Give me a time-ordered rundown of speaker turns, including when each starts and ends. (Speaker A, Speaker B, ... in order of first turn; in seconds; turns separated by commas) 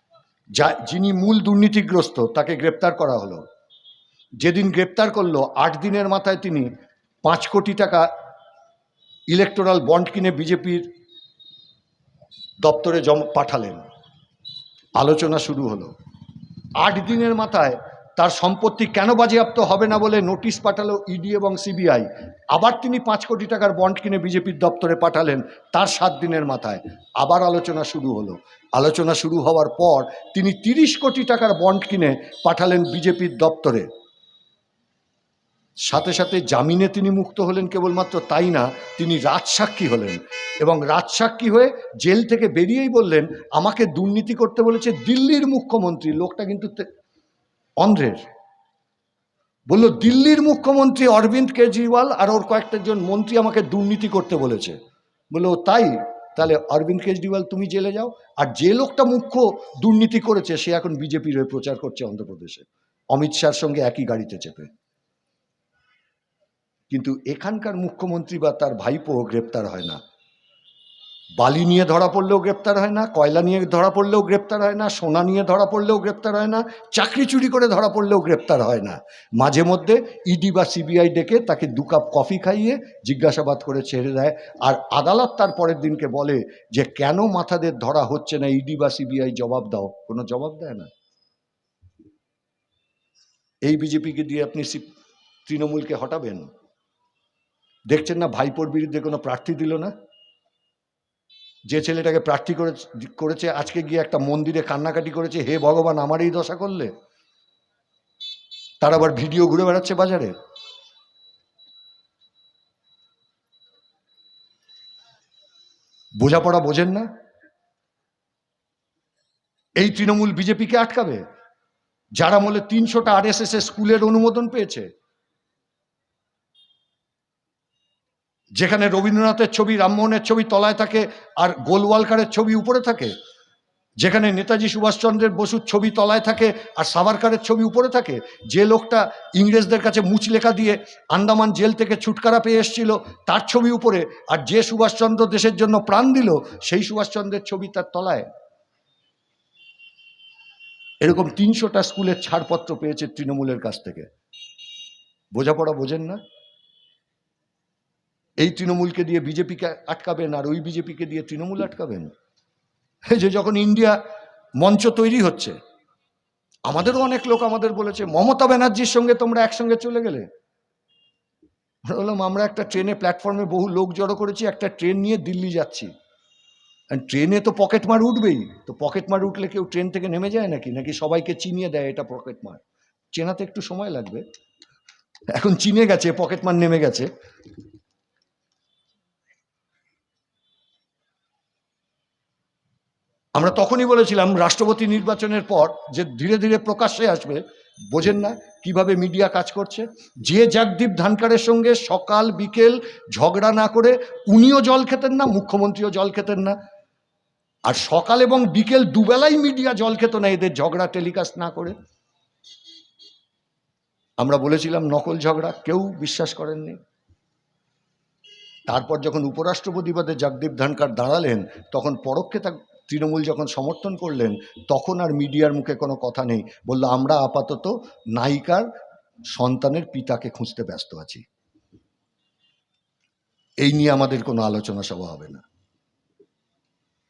Speaker A: 0.6-3.4, Speaker A: 4.4-6.7, Speaker A: 7.2-8.1, Speaker A: 9.3-10.9, Speaker A: 12.6-13.8, Speaker A: 15.0-15.9, Speaker A: 16.8-33.9, Speaker A: 35.9-46.8, Speaker A: 47.8-48.2, Speaker A: 49.7-54.8, Speaker A: 55.3-64.7, Speaker A: 66.9-70.0, Speaker A: 71.4-90.9, Speaker A: 93.6-94.8, Speaker A: 95.5-96.5, Speaker A: 97.9-99.9, Speaker A: 101.7-106.9, Speaker A: 108.8-110.3, Speaker A: 116.2-117.1, Speaker A: 119.8-121.2, Speaker A: 122.2-124.9, Speaker A: 128.6-133.1, Speaker A: 134.0-148.3, Speaker A: 151.0-154.1, Speaker A: 155.3-156.2, Speaker A: 158.4-162.1, Speaker A: 163.1-164.0, Speaker A: 164.6-165.6, Speaker A: 166.7-170.2, Speaker A: 171.8-175.9, Speaker A: 176.9-182.6, Speaker A: 183.1-184.2, Speaker A: 185.3-187.1, Speaker A: 193.3-206.6, Speaker A: 207.7-211.7, Speaker A: 214.2-216.8, Speaker A: 218.7-228.7, Speaker A: 229.3-231.2, Speaker A: 233.6-235.4